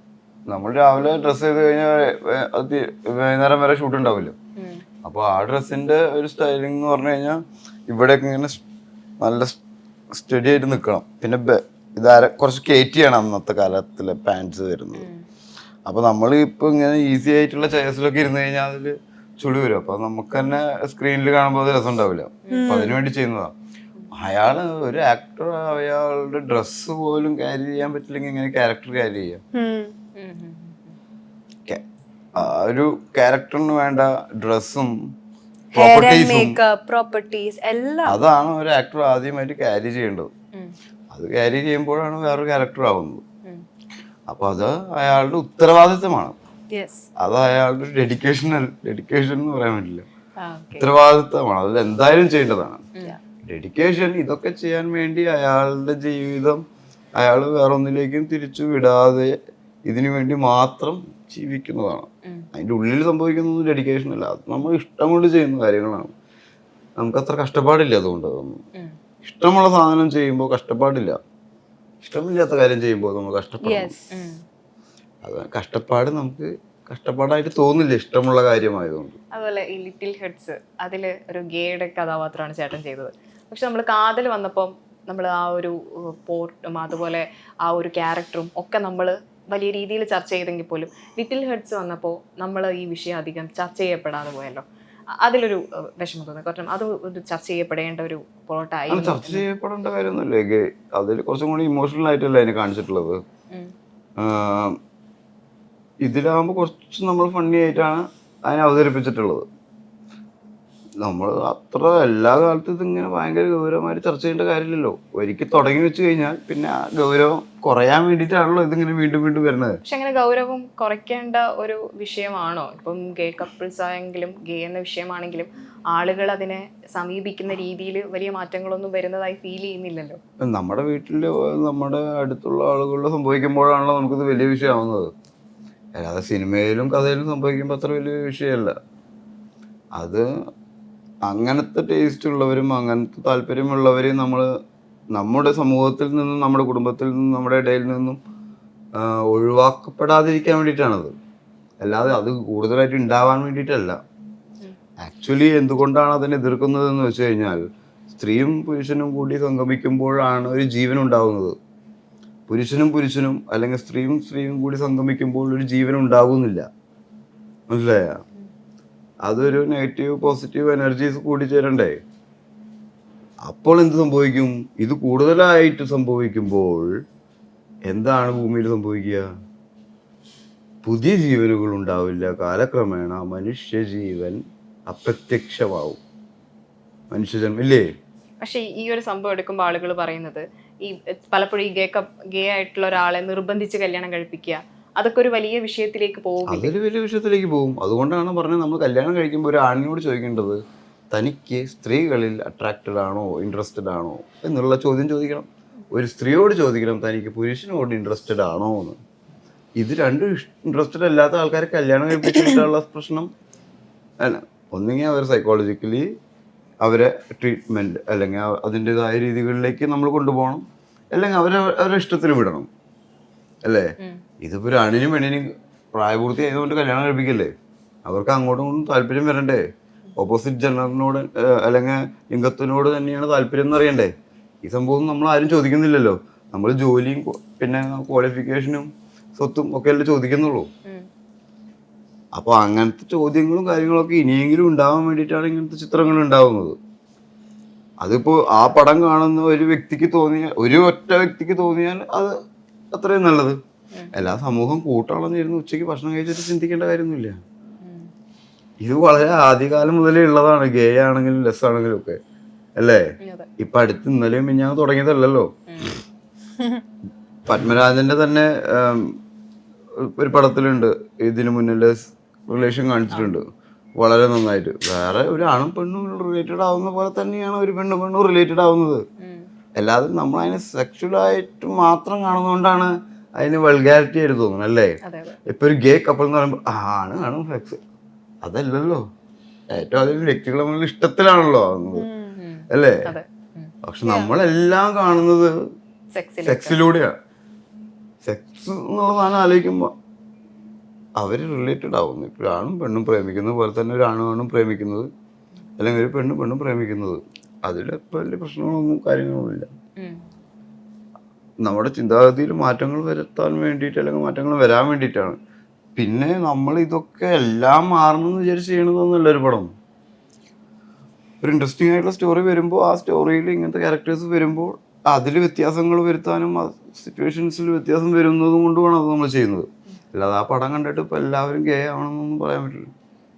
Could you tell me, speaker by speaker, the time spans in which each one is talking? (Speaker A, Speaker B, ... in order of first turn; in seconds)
Speaker A: 0.5-4.3, 5.0-8.6, 9.2-9.6, 10.1-15.1, 15.9-23.5, 24.1-29.4, 32.3-34.9, 35.7-36.6, 38.0-40.3, 41.1-43.2, 44.3-46.4, 47.2-50.0, 50.8-52.9, 53.5-56.6, 57.2-59.3, 59.9-66.1, 67.0-68.6, 69.2-71.2, 72.0-74.0, 75.2-79.2, 98.9-103.2, 104.2-104.8, 106.0-109.5, 111.0-119.8, 130.4-135.1, 136.0-138.7, 139.9-140.3, 141.2-144.4, 145.1-148.2, 148.9-151.1, 151.8-154.0, 155.0-157.6, 158.1-161.5, 162.5-166.7, 167.7-168.2, 169.2-172.0, 173.4-176.9, 177.8-179.3, 180.8-186.0, 187.1-187.8, 196.5-200.6, 201.1-209.0, 209.8-213.3, 214.2-216.0, 216.8-222.7, 223.6-227.5, 228.1-229.6, 230.2-234.1, 234.6-240.7, 242.3-246.8, 248.0-252.3, 252.9-253.6, 254.1-257.4, 258.8-262.2, 262.8-263.0, 263.6-265.5, 267.5-269.2, 270.0-273.4, 274.0-279.0, 279.8-284.9, 285.5-287.8, 288.4-289.0, 289.7-292.1, 292.7-293.1, 293.9-295.5, 296.4-297.1, 298.2-299.9, 301.2-305.1, 305.8-309.7, 311.6-315.4, 315.9-319.7, 321.4-332.9
Speaker B: 4.5-4.8, 14.9-15.2, 22.5-22.8, 30.1-31.0, 50.4-50.9, 74.1-74.4, 79.3-94.6, 95.2-99.5, 119.8-130.2, 188.4-196.7, 257.8-258.1, 263.2-263.5, 265.7-265.9, 279.2-279.5, 285.0-285.4, 292.4-293.7, 296.1-296.8, 310.0-310.2
Speaker C: 22.5-23.0, 29.5-29.9, 35.7-38.2, 46.7-47.1, 73.6-74.1, 291.9-292.4, 294.0-294.3